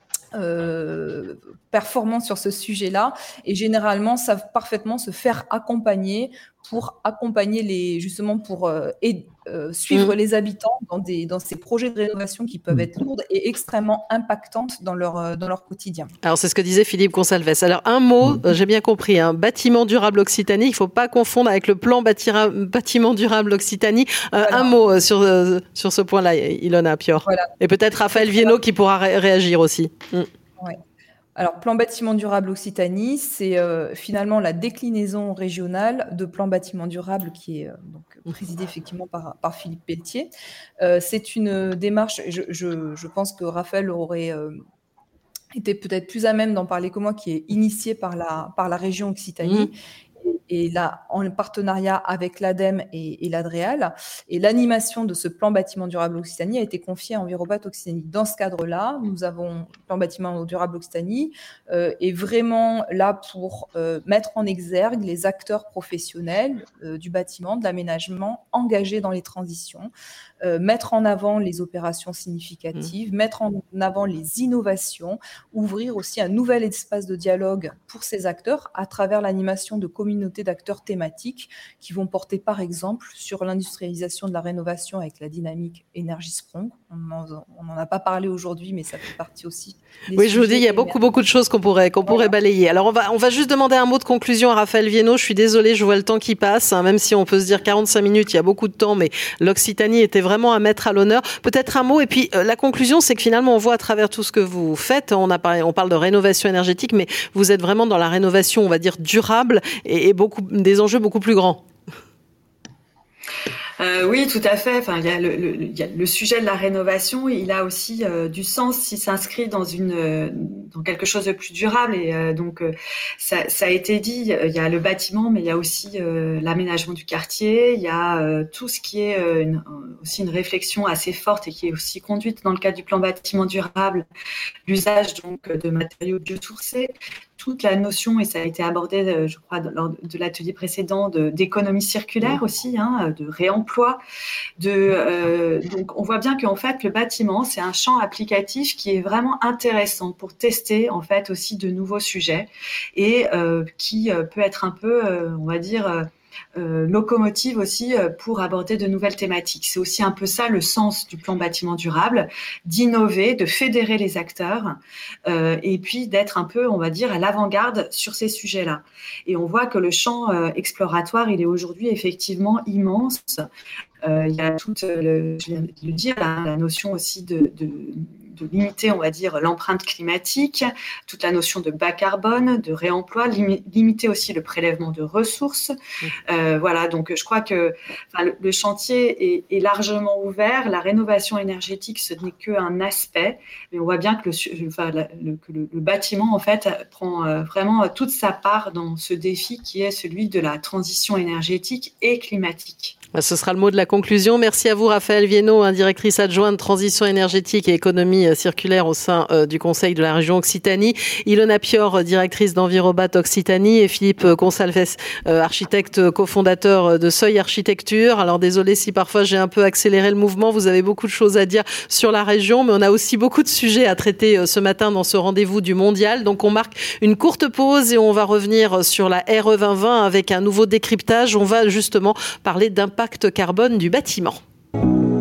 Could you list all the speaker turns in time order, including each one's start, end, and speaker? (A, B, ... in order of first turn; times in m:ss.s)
0:00.3-0:16.1 A
0:16.2-0:30.3 B
0:24.4-0:24.7 A
0:27.2-0:27.5 A
0:28.1-0:28.6 A
0:31.4-0:40.3 A
0:40.8-0:44.6 A
0:45.6-0:49.8 A
0:49.4-0:49.7 B
0:50.3-1:09.9 A
1:10.4-1:31.0 A
1:30.2-1:51.6 B
1:32.0-1:32.3 A
1:53.8-2:14.1 C
2:14.7-2:24.0 C
2:24.6-2:53.5 C
2:54.0-3:05.7 C
3:06.3-3:23.0 C
3:23.1-3:54.4 B